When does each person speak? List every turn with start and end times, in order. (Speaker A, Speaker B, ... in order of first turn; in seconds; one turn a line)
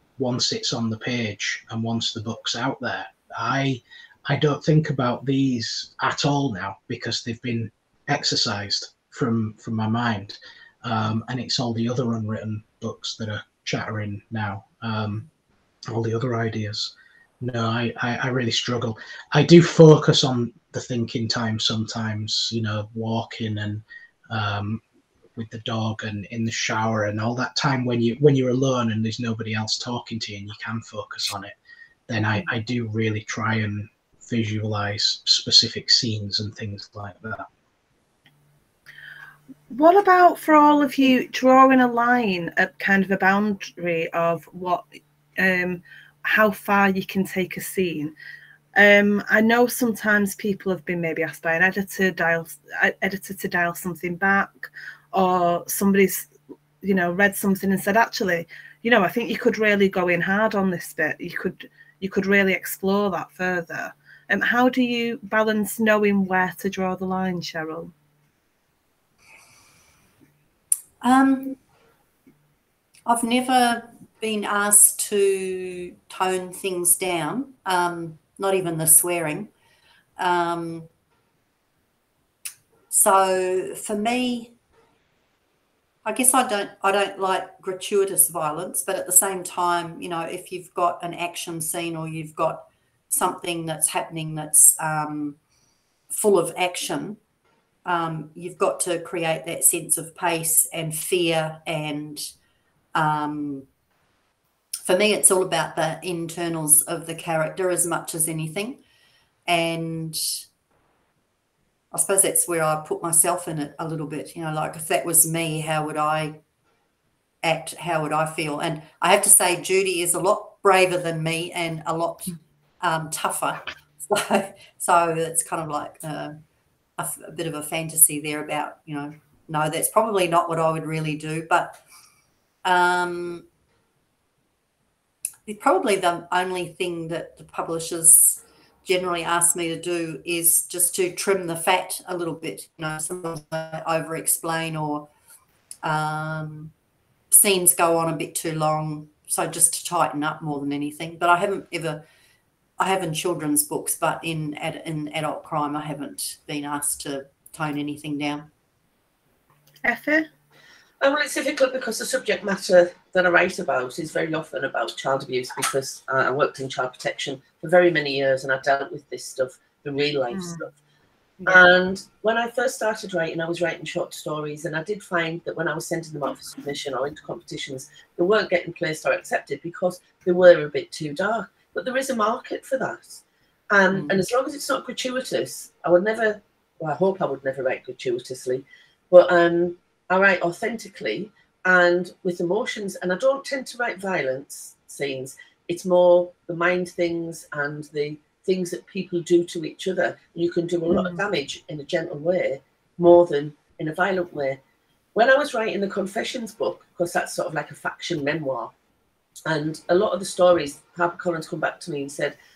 Speaker A: 0.2-15.3
Speaker A: 15.9-24.8
Speaker A: 25.3-31.5
Speaker A: 32.1-37.5
Speaker B: 39.7-48.1
Speaker B: 48.8-56.3
Speaker B: 56.8-67.9
Speaker C: 71.0-71.6
Speaker C: 73.0-79.5
Speaker C: 80.2-80.9
Speaker C: 82.9-84.5
Speaker C: 86.0-95.4
Speaker C: 96.1-97.2
Speaker C: 97.8-102.3
Speaker C: 102.9-103.7
Speaker C: 104.8-108.8
Speaker C: 109.5-110.4
Speaker C: 111.9-116.4
Speaker C: 117.4-126.4
Speaker C: 127.0-131.8
Speaker C: 132.6-133.4
Speaker C: 135.4-145.1
Speaker C: 145.8-146.7
Speaker C: 147.3-152.0
Speaker C: 152.8-158.5
Speaker B: 159.8-160.3
Speaker D: 161.0-170.7
Speaker B: 170.3-170.7
Speaker D: 171.4-204.6
Speaker C: 183.9-184.2
Speaker B: 200.9-201.2
Speaker D: 205.1-208.7
Speaker D: 209.4-212.3